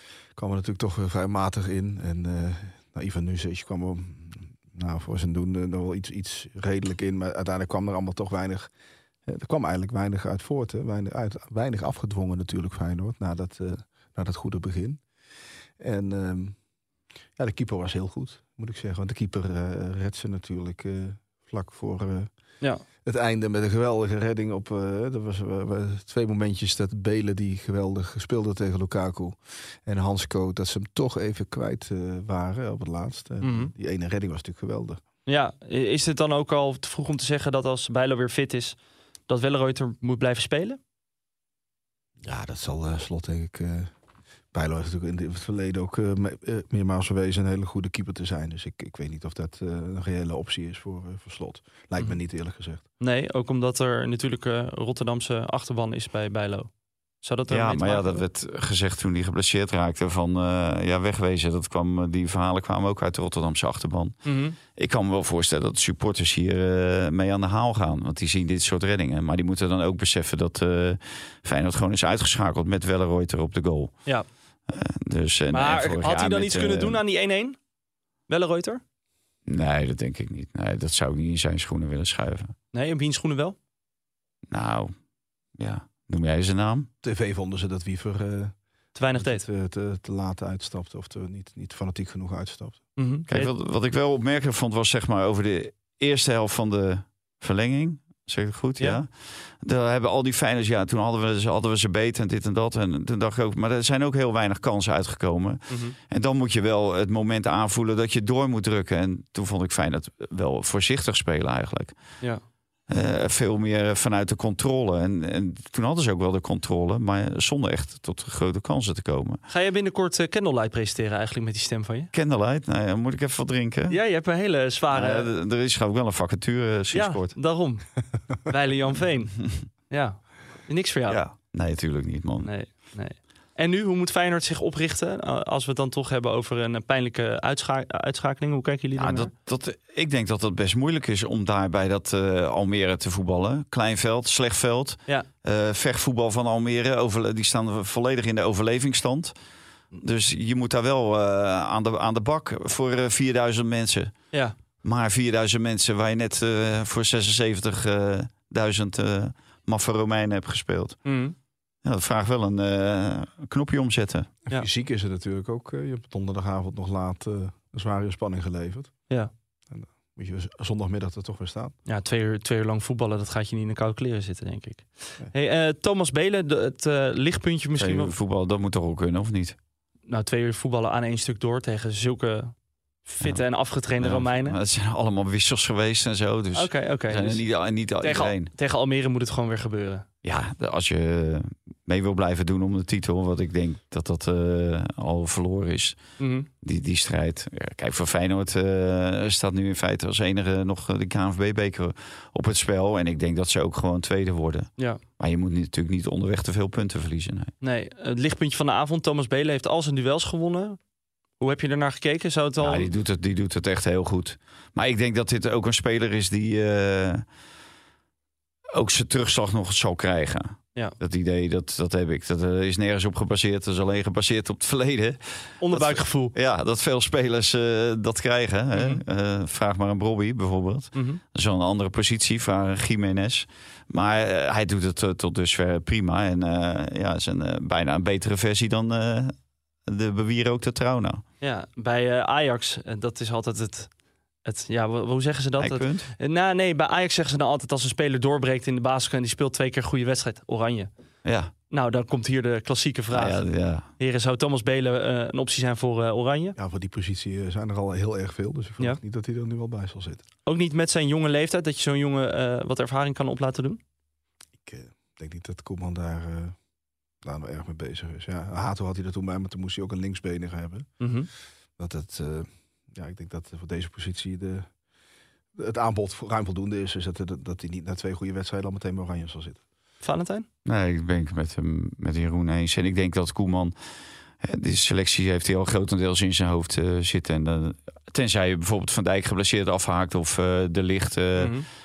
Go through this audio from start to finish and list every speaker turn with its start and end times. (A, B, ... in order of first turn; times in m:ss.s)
0:00.4-0:08.7 A
0:09.2-0:15.0 A
0:15.8-0:16.6 A
0:17.4-0:22.3 A
0:23.0-0:35.0 A
0:33.4-0:33.7 B
0:35.3-0:38.8 B
0:39.3-0:40.8 B
0:42.2-0:43.9 A
0:44.5-0:52.8 A
0:53.0-0:56.7 B
0:57.2-0:58.2 B
0:57.5-1:13.9 C
1:04.2-1:04.6 B
1:14.7-1:17.0 C
1:15.5-1:17.6 B
1:18.3-1:18.8 B
1:19.4-1:22.5 C
1:22.7-1:23.6 B
1:24.5-1:24.9 C
1:25.6-1:26.9 C
1:27.0-1:28.5 A
1:28.9-1:29.4 B
1:29.2-1:32.8 A
1:33.0-1:33.5 B
1:33.3-1:39.1 C
1:39.6-1:52.0 C
1:45.7-1:46.0 B
1:52.9-1:59.4 C
1:59.5-2:02.1 B
2:02.1-2:04.0 C
2:03.9-2:05.3 B
2:04.9-2:07.4 C
2:06.9-2:07.8 B
2:08.4-2:09.4 B
2:09.9-2:11.2 B
2:11.1-2:12.5 C
2:12.4-2:19.3 B
2:19.0-2:29.3 C
2:30.0-2:34.1 C
2:34.8-2:41.0 C
2:41.0-2:41.3 B
2:41.8-2:44.3 C
2:44.5-2:48.9 A
2:49.7-2:51.7 A
2:51.9-2:58.1 B
2:57.8-2:59.6 C
3:00.1-3:04.6 B
3:04.0-3:08.5 C
3:06.5-3:07.4 B
3:08.0-3:10.0 B
3:10.2-3:16.0 C
3:16.2-3:16.5 B
3:16.6-3:27.5 C
3:27.6-3:30.8 B
3:31.4-3:32.9 B
3:32.6-3:37.2 C
3:38.7-3:45.2 C
3:45.6-3:46.3 B
3:45.7-3:59.3 C
3:48.7-3:49.0 B
3:50.9-3:51.2 B
3:59.8-4:01.2 C
4:01.4-4:03.9 B
4:04.4-4:10.9 B
4:05.6-4:06.1 C
4:11.2-4:11.5 C
4:11.7-4:13.4 B
4:13.1-4:13.8 C
4:14.0-4:16.6 B
4:16.6-4:20.2 A
4:20.4-4:23.8 B
4:24.6-4:26.6 A
4:27.2-4:30.9 A
4:31.0-4:31.3 B
4:31.8-4:34.7 A
4:35.5-4:39.6 A
4:40.0-4:40.5 B
4:40.6-4:43.7 C
4:44.4-4:51.5 C
4:51.4-4:51.6 B